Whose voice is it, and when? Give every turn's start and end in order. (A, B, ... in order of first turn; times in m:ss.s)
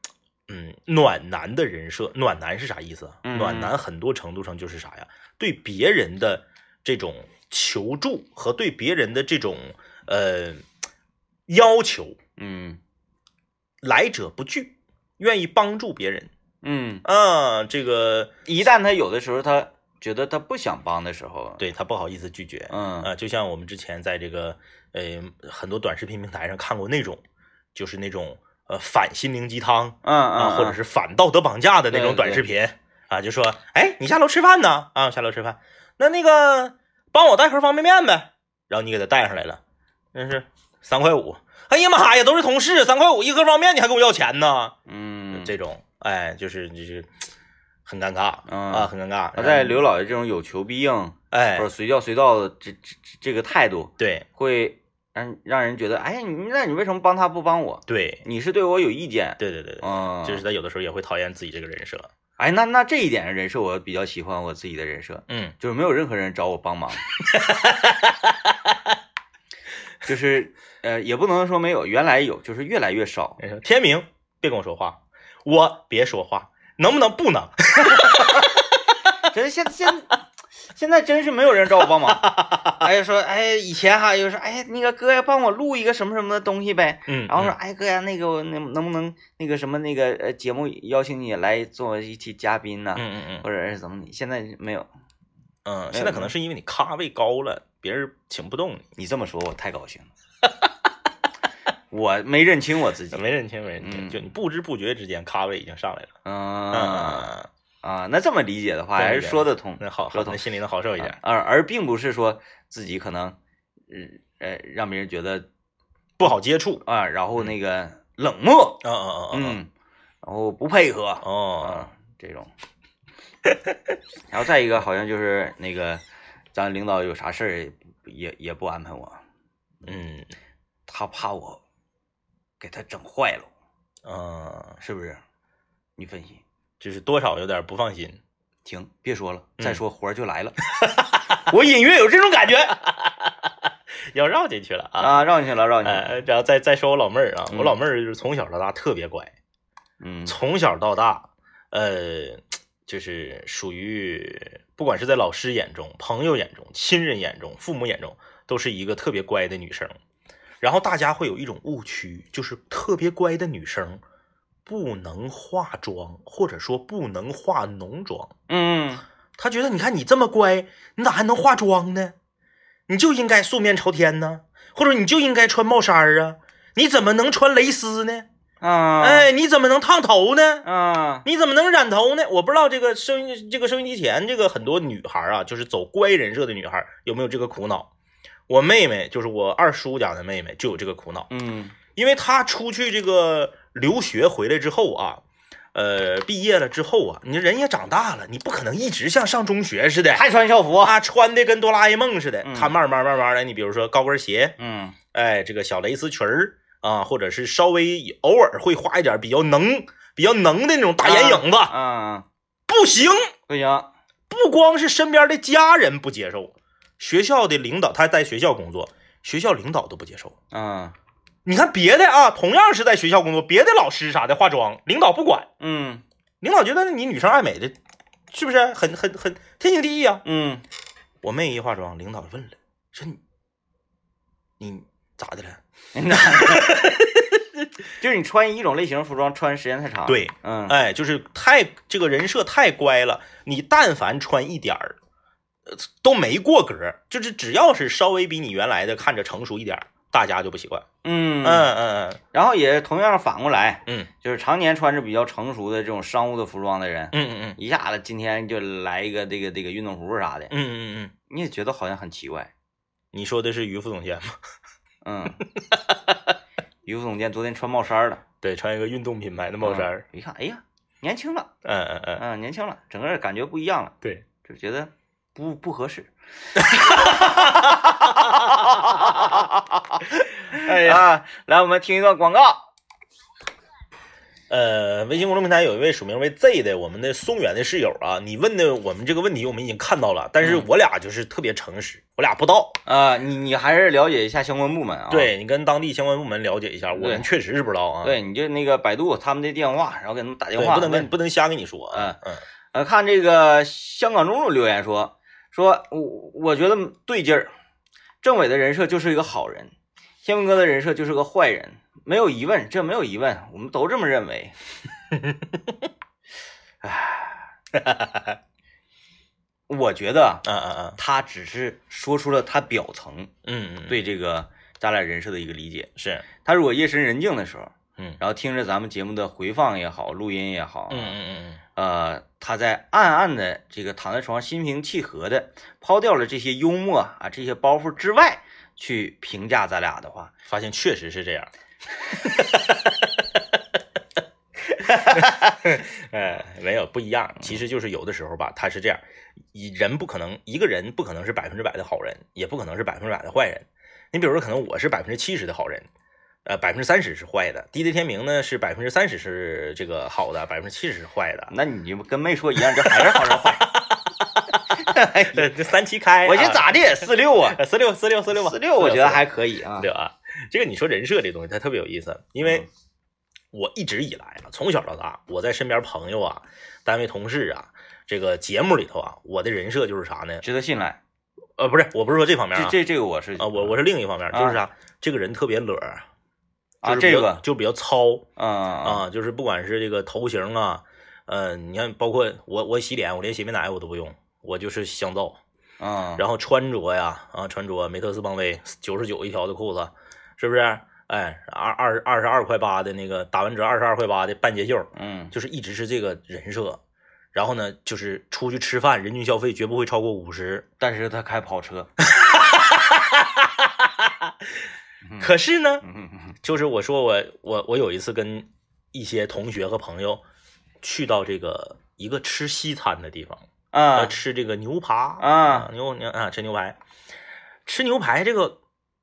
0:00.5-0:10.6 A
0:03.2-0:03.7 B
0:11.5-0:12.2 A
0:12.4-0:12.8 B
0:13.8-0:16.3 A
0:16.6-0:17.0 B
0:17.0-0:18.3 A
0:18.4-0:21.6 B
0:21.6-0:27.2 A
0:22.7-0:23.1 B
0:27.7-0:39.6 A
0:30.0-0:30.8 B
0:31.9-0:32.4 B
0:40.1-0:44.7 A
0:44.9-0:45.5 B
0:45.3-0:47.1 A
0:47.8-0:49.8 A
0:48.5-1:00.4 B
0:51.3-0:51.7 A
0:54.0-0:54.2 A
0:57.9-0:58.2 A
0:59.4-1:02.1 A
1:02.4-1:07.0 B
1:05.3-1:05.5 A
1:07.2-1:08.8 A
1:10.0-1:13.4 B
1:13.4-1:18.7 A
1:19.3-1:20.2 B
1:20.7-1:34.9 B
1:22.1-1:22.8 A
1:27.1-1:27.6 A
1:33.0-1:33.4 A
1:35.6-1:38.8 A
1:35.9-1:36.3 B
1:39.0-1:40.1 B
1:41.9-1:43.2 B
1:43.1-1:46.1 A
1:43.8-1:44.2 B
1:46.2-1:47.3 B
1:46.7-1:47.5 A
1:47.8-1:50.4 B
1:49.0-1:51.2 A
1:51.0-1:53.4 B
1:53.9-1:55.5 B
1:56.2-1:56.8 A
1:56.8-1:59.7 B
1:58.8-1:59.6 A
2:00.2-2:02.5 B
2:01.2-2:01.9 A
2:04.3-2:06.0 B
2:06.5-2:09.2 B
2:09.8-2:10.3 A
2:10.9-2:11.6 B
2:12.6-2:13.5 B
2:14.0-2:14.8 A
2:14.8-2:15.2 B
2:16.0-2:16.4 B
2:16.8-2:18.2 A
2:18.6-2:20.6 B
2:20.7-2:21.4 A
2:21.5-2:22.8 B
2:22.8-2:23.5 A
2:24.1-2:25.2 A
2:25.0-2:26.1 B
2:25.8-2:29.3 A
2:27.5-2:27.8 B
2:30.0-2:30.4 B
2:30.3-2:40.0 A
2:40.6-2:44.0 A
2:44.6-2:48.3 A
2:48.5-2:49.0 B
2:49.4-2:52.1 A
2:52.9-2:58.3 A
2:58.6-2:59.3 B
2:59.0-3:00.6 A
3:00.6-3:01.2 B
3:01.2-3:07.9 A
3:08.5-3:11.3 A
3:11.3-3:11.7 B
3:11.9-3:15.2 A
3:15.7-3:20.2 A
3:20.1-3:21.0 B
3:20.8-3:24.6 A
3:22.4-3:22.7 B
3:24.6-3:25.0 B
3:25.1-3:31.7 A
3:31.0-3:32.2 B
3:32.7-3:33.3 A
3:33.5-3:33.9 B
3:34.3-3:40.3 A
3:40.5-3:40.9 B
3:41.4-3:45.5 A
3:45.6-3:46.0 B
3:46.4-3:47.7 A
3:48.3-3:50.2 A
3:50.2-3:50.6 B
3:51.2-3:53.2 A
3:54.6-3:55.6 A
3:55.9-3:56.9 B
3:56.1-3:57.4 A
3:58.0-4:00.8 B
4:00.1-4:05.0 A
4:05.6-4:10.8 A
4:11.0-4:11.7 B
4:11.4-4:12.2 A
4:12.3-4:20.5 B
4:17.1-4:17.6 A
4:20.5-4:21.1 A
4:21.3-4:22.5 B
4:23.1-4:24.3 A
4:25.0-4:25.4 B
4:25.5-4:26.1 A
4:26.8-4:28.2 B
4:28.4-4:30.0 A
4:29.6-4:31.5 B
4:31.6-4:32.2 A
4:32.2-4:36.1 B
4:36.6-4:39.4 A
4:36.7-4:42.6 B
4:40.5-4:41.0 A
4:44.5-4:52.8 A
4:50.4-4:50.7 B
4:52.8-4:55.3 B
4:55.1-4:58.2 A
4:56.9-4:57.2 B
4:58.0-5:01.1 B
5:00.6-5:02.4 A
5:01.9-5:02.2 B
5:02.7-5:07.5 B
5:08.2-5:14.5 B
5:15.1-5:15.7 A
5:16.8-5:17.5 B
5:17.7-5:18.4 A
5:19.7-5:20.4 B
5:20.4-5:21.0 A
5:21.0-5:23.3 B
5:23.4-5:24.0 A
5:23.9-5:31.2 B
5:26.0-5:26.2 A
5:30.9-5:31.6 A
5:31.8-5:40.3 B
5:40.4-5:41.5 A
5:42.1-5:43.4 A
5:44.7-5:55.9 A
5:56.4-6:01.5 A
6:01.5-6:03.7 B
6:02.8-6:09.2 A
6:04.7-6:05.5 B
6:06.2-6:07.6 B
6:08.3-6:09.9 B
6:09.8-6:12.6 A
6:13.5-6:20.4 A
6:20.4-6:21.0 B
6:21.6-6:22.8 A
6:22.5-6:23.8 B
6:23.4-6:26.0 A
6:24.3-6:24.6 B
6:26.8-6:27.4 B
6:26.8-6:28.2 A
6:28.4-6:29.0 B
6:28.8-6:35.4 A
6:35.8-6:36.2 B
6:36.2-6:46.8 A
6:44.9-6:45.3 B
6:47.3-6:50.6 A
6:50.8-6:51.9 B
6:52.0-6:54.3 A
6:55.2-6:55.8 A
6:55.8-6:56.3 B
6:56.4-7:00.2 A
7:00.8-7:06.8 A
7:03.7-7:04.2 B
7:05.2-7:05.7 B
7:07.6-7:08.6 A